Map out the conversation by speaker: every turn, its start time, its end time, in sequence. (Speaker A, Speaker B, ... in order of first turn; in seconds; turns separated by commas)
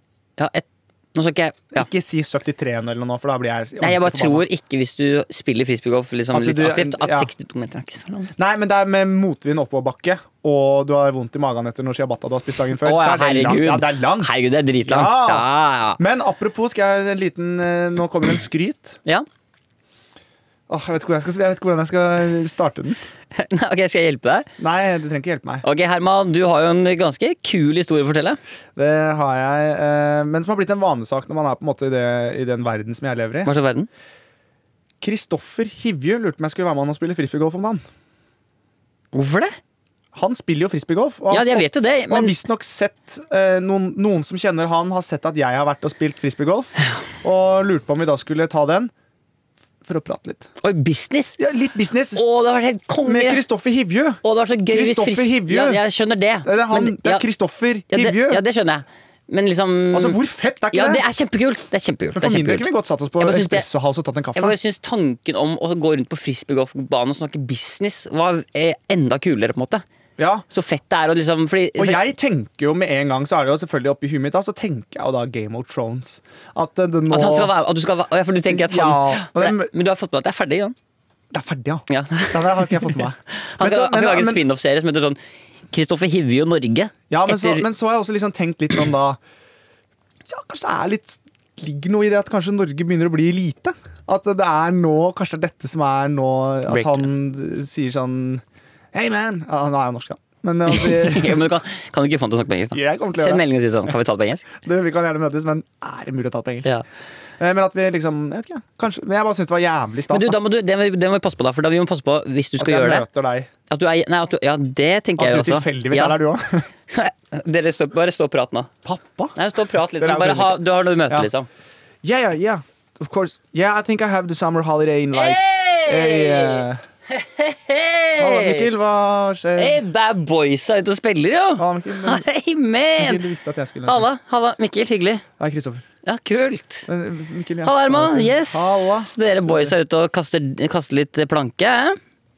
Speaker A: 0.4-1.9, Speaker B: 1.7-4.5, Speaker A: 3.8-8.3, Speaker B: 6.3-7.3, Speaker B: 8.4-14.3, Speaker A: 12.8-16.0, Speaker B: 14.8-19.0, Speaker B: 20.7-23.0, Speaker A: 23.3-24.5, Speaker B: 24.6-25.6, Speaker A: 25.6-28.4, Speaker B: 28.8-33.5, Speaker A: 33.5-33.9, Speaker B: 35.0-37.8, Speaker A: 39.1-39.6, Speaker B: 40.1-48.9, Speaker A: 41.3-42.4, Speaker B: 49.8-50.5, Speaker A: 50.6-51.4, Speaker B: 51.4-52.2, Speaker A: 52.1-53.4, Speaker B: 53.0-55.8, Speaker A: 54.2-57.3, Speaker B: 56.5-58.4, Speaker A: 57.9-60.2, Speaker B: 59.9-61.0, Speaker A: 60.7-62.7, Speaker B: 62.1-64.6, Speaker A: 63.2-63.7, Speaker A: 64.3-69.8, Speaker B: 70.2-70.5, Speaker A: 70.5-72.0, Speaker B: 71.8-77.5, Speaker A: 77.1-80.8, Speaker B: 78.5-79.7, Speaker B: 81.3-84.4, Speaker A: 81.9-85.2, Speaker A: 85.7-87.6, Speaker B: 87.1-89.2, Speaker B: 90.3-101.4, Speaker A: 96.7-97.0, Speaker A: 100.7-104.5, Speaker B: 102.7-103.4, Speaker B: 104.6-106.7, Speaker B: 107.4-110.4, Speaker A: 110.1-113.1, Speaker B: 112.6-113.5, Speaker A: 113.7-116.2, Speaker B: 115.2-116.7, Speaker A: 116.9-118.7, Speaker B: 118.8-119.4, Speaker A: 119.4-121.5, Speaker B: 120.0-121.3, Speaker B: 122.0-126.8, Speaker A: 125.1-128.7, Speaker B: 128.2-129.8, Speaker A: 129.6-133.2, Speaker B: 131.6-132.2, Speaker B: 133.0-134.1, Speaker A: 133.9-135.2, Speaker B: 135.4-135.8, Speaker A: 136.1-136.9, Speaker B: 136.9-139.8, Speaker A: 137.6-142.0